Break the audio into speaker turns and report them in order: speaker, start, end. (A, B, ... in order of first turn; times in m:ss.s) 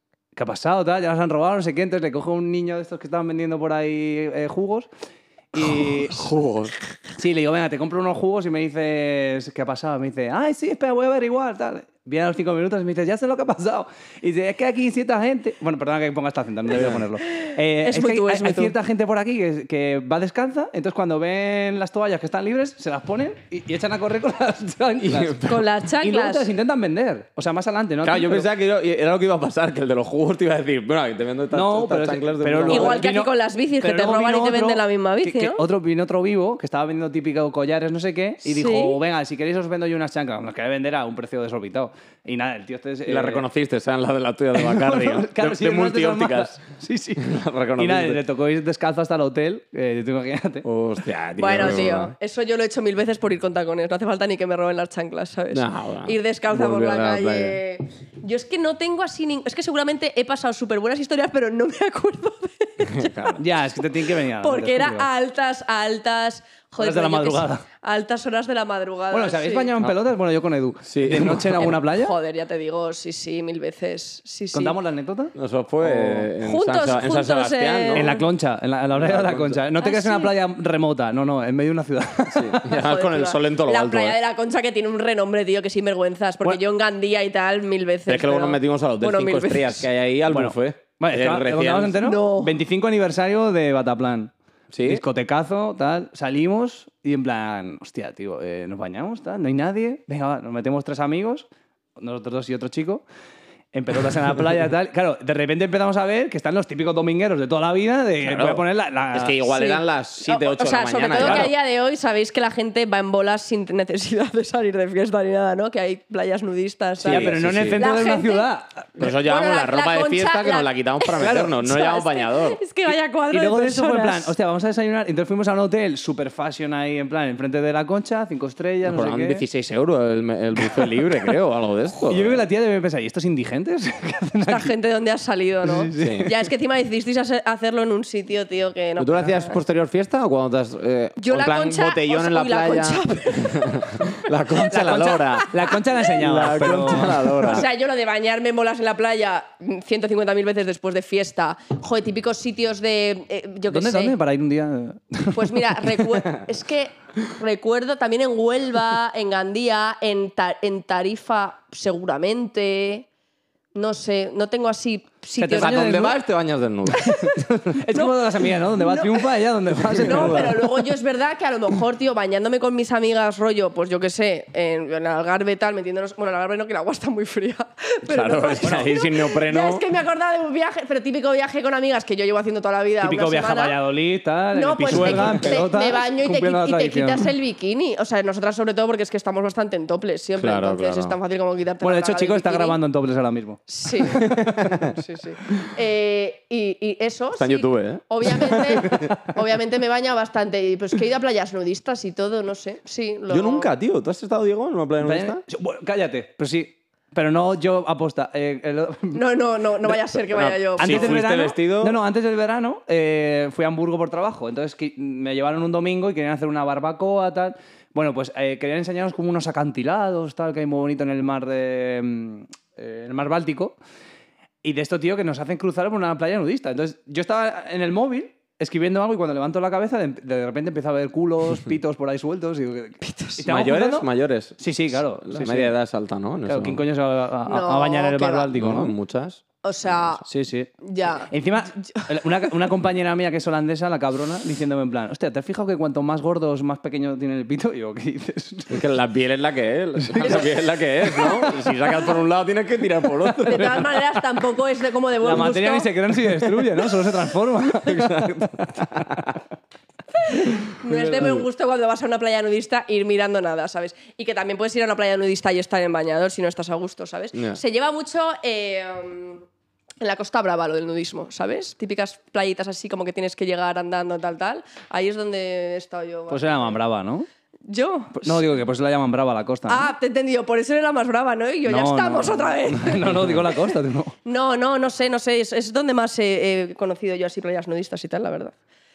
0:00.4-0:04.9 A
0:05.5-0:06.3 A
0:05.6-0:06.8 B
0:07.2-0:25.5 A
0:16.7-0:17.0 B
0:17.3-0:18.7 C
0:25.0-0:25.7 B
0:25.4-0:26.5 C
0:26.0-0:28.5 A
0:28.0-0:33.1 B
0:31.5-0:43.4 A
0:32.7-0:35.6 C
0:38.4-0:39.0 C
0:43.1-0:46.6 B
0:44.6-0:50.7 A
0:47.2-0:48.2 B
0:50.6-0:52.1 B
0:51.4-1:09.7 C
0:55.5-0:57.6 B
1:02.9-1:03.4 B
1:03.4-1:05.1 A
1:06.8-1:07.6 A
1:09.1-1:12.1 A
1:10.8-1:11.7 B
1:11.6-1:14.8 C
1:14.5-1:16.3 A
1:15.4-1:18.2 B
1:16.4-1:18.2 C
1:17.9-1:22.7 A
1:19.0-1:19.6 B
1:19.8-1:20.4 C
1:22.3-1:24.2 B
1:22.6-1:29.9 C
1:28.1-1:32.0 B
1:30.3-1:34.3 A
1:32.0-1:32.6 C
1:34.7-1:35.0 B
1:34.8-1:43.0 A
1:43.7-1:49.4 A
1:48.2-1:51.5 B
1:49.4-1:58.5 C
1:51.2-1:51.5 A
1:57.0-1:57.8 B
1:57.1-1:58.9 A
1:59.0-2:02.6 B
1:59.0-2:04.3 C
2:01.2-2:01.5 A
2:03.3-2:09.4 A
2:08.8-2:12.4 B
2:12.1-2:14.7 A
2:14.5-2:19.6 C
2:15.6-2:16.3 A
2:16.0-2:16.3 B
2:19.0-2:25.5 B
2:21.2-2:25.8 C
2:24.6-2:27.6 A
2:26.2-2:27.7 B
2:26.6-2:34.2 C
2:33.7-2:36.0 A
2:35.3-2:43.1 C
2:43.7-2:46.0 C
2:45.4-2:46.2 A
2:45.6-2:47.3 B
2:46.9-2:47.4 C
2:47.0-2:50.7 A
2:47.9-2:49.3 C
2:49.9-3:03.8 C
2:50.2-2:50.5 B
2:58.1-2:59.8 B
2:58.6-2:58.9 A
3:03.0-3:07.2 A
3:04.5-3:12.8 C
3:04.9-3:05.6 B
3:10.4-3:11.2 B
3:11.8-3:14.8 A
3:13.7-3:14.3 C
3:14.2-3:14.9 B
3:14.8-3:23.7 C
3:17.4-3:19.1 B
3:23.3-3:25.4 B
3:25.0-3:29.2 A
3:29.1-3:31.2 C
3:30.3-3:32.0 B
3:30.8-3:43.8 A
3:44.6-3:54.1 A
3:53.0-3:53.4 C
3:53.4-3:56.8 B
3:54.6-3:55.8 A
3:56.5-3:58.9 A
3:57.5-3:58.6 C
3:58.5-4:00.2 B
3:59.6-4:00.2 C
4:00.3-4:00.7 A
4:00.8-4:02.5 C
4:01.3-4:08.8 A
4:08.7-4:14.0 B
4:10.0-4:10.5 A
4:10.2-4:10.5 C
4:11.1-4:11.7 A
4:11.1-4:11.4 C
4:13.4-4:15.9 C
4:15.2-4:19.3 A
4:17.8-4:19.3 B
4:20.2-4:29.4 C
4:20.3-4:21.2 A
4:27.3-4:27.6 B
4:30.0-4:36.8 C
4:36.3-4:37.3 A
4:37.7-4:38.4 C
4:38.2-4:39.9 A
4:39.7-4:43.6 C
4:41.7-4:44.1 A
4:44.2-4:48.5 C